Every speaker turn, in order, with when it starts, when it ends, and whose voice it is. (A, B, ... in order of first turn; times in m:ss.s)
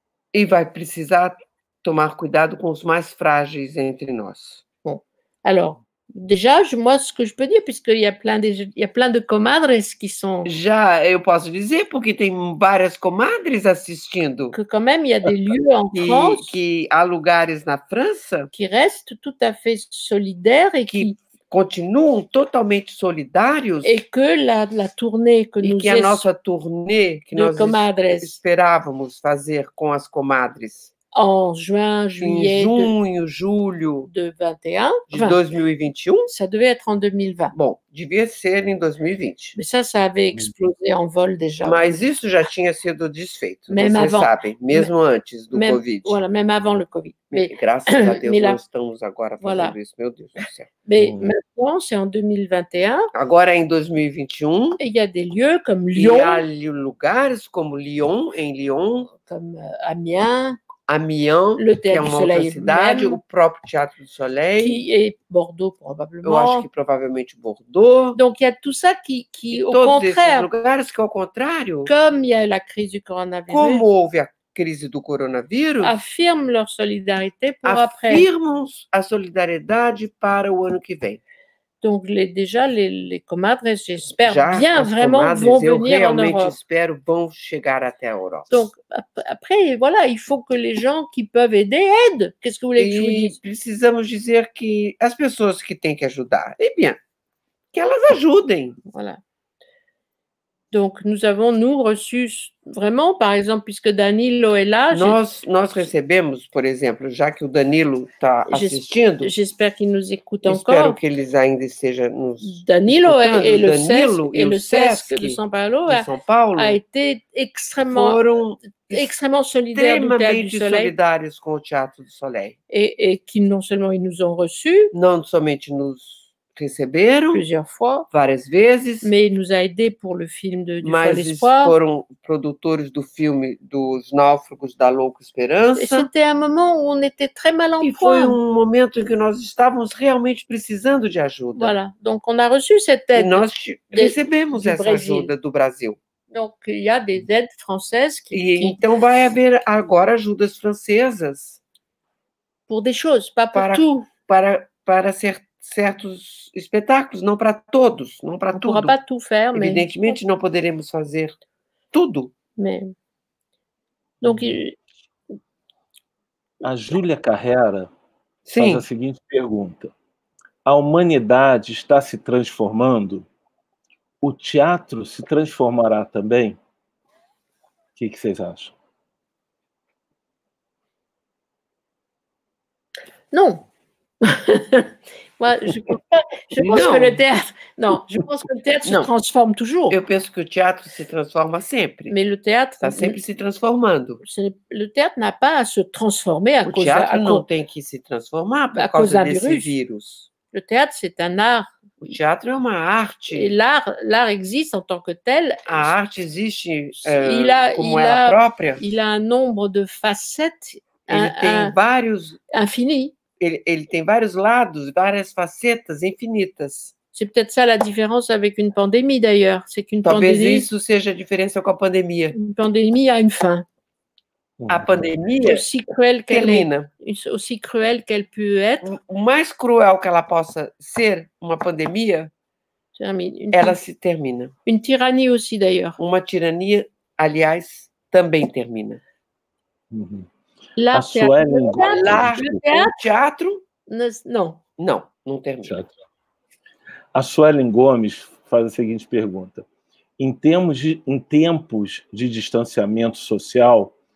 0:00.3-0:04.6 A
0:04.8-0:10.5 B
0:10.4-0:14.6 A
0:14.5-0:16.5 B
0:15.9-0:18.5 A
0:18.5-0:21.2 B
0:20.9-0:23.9 A
0:23.8-0:26.2 B
0:25.6-0:30.9 A
0:27.3-0:28.4 B
0:31.1-0:32.9 B
0:32.2-0:34.1 A
0:34.1-0:35.4 B
0:35.1-0:36.3 A
0:36.3-0:37.6 B
0:37.5-0:39.6 A
0:39.6-0:41.9 B
0:41.6-0:46.2 A
0:43.7-0:44.9 B
0:45.5-0:48.6 B
0:47.3-0:50.7 A
0:49.4-0:49.8 B
0:50.8-0:53.1 B
0:51.0-0:51.3 C
0:53.1-0:54.8 A
0:54.8-0:56.4 B
0:55.9-0:59.1 A
0:59.1-1:00.6 B
1:00.9-1:04.8 A
1:01.6-1:03.2 B
1:04.6-1:06.6 B
1:06.2-1:08.2 A
1:08.1-1:10.5 B
1:09.5-1:11.9 A
1:11.8-1:13.8 B
1:13.5-1:16.0 A
1:15.8-1:18.3 B
1:17.6-1:21.2 A
1:21.8-1:26.5 B
1:24.2-1:28.7 A
1:28.5-1:33.4 B
1:32.8-1:37.0 A
1:37.7-1:38.8 A
1:38.9-1:39.2 B
1:40.7-1:45.2 B
1:44.9-1:49.3 A
1:48.5-1:51.0 B
1:50.4-1:56.8 A
1:52.4-1:58.2 B
1:57.9-1:59.1 A
1:58.9-2:00.9 B
1:59.7-2:02.6 A
2:02.7-2:04.9 B
2:04.9-2:07.4 A
2:07.3-2:08.1 B
2:08.1-2:09.1 A
2:09.0-2:11.7 B
2:10.8-2:16.1 A
2:15.8-2:18.4 B
2:17.8-2:21.8 A
2:21.6-2:25.3 B
2:23.1-2:26.0 A
2:26.3-2:28.8 B
2:28.3-2:31.6 A
2:32.7-2:34.1 B
2:33.5-2:38.9 A
2:38.5-2:40.2 B
2:39.5-2:41.4 A
2:41.9-2:42.3 A
2:42.6-2:42.9 B
2:44.2-2:44.6 C
2:44.2-2:44.8 B
2:46.6-2:47.9 C
2:48.4-2:48.8 A
2:48.6-2:49.9 C
2:50.6-2:53.3 C
2:54.2-2:56.6 C
2:58.0-2:58.7 C
3:03.3-3:03.6 B
3:04.2-3:10.0 B
3:06.6-3:07.2 A
3:08.8-3:09.1 A
3:09.9-3:12.1 A
3:12.1-3:13.2 B
3:12.8-3:14.2 A
3:14.2-3:17.4 B
3:16.6-3:20.3 A
3:18.7-3:19.7 B
3:20.5-3:22.2 B
3:22.0-3:23.5 A
3:23.3-3:25.8 B
3:25.7-3:28.8 A
3:27.0-3:31.7 B
3:31.1-3:32.4 A
3:32.5-3:33.1 B
3:33.4-3:36.9 A
3:37.1-3:40.7 B
3:40.0-3:42.3 A
3:42.3-3:43.6 B
3:44.6-3:45.1 C
3:44.7-3:45.6 A
3:45.4-3:48.9 B
3:46.3-3:46.9 A
3:48.8-3:52.3 A
3:53.0-3:53.8 B
3:53.5-3:54.5 A
3:54.6-3:56.0 B
3:56.0-3:59.0 A
3:59.9-4:00.3 C
4:00.8-4:02.9 B
4:00.9-4:02.6 C
4:01.7-4:03.6 A
4:03.9-4:04.6 B
4:04.8-4:05.8 A
4:05.6-4:06.0 C
4:07.1-4:09.6 C
4:10.2-4:13.9 C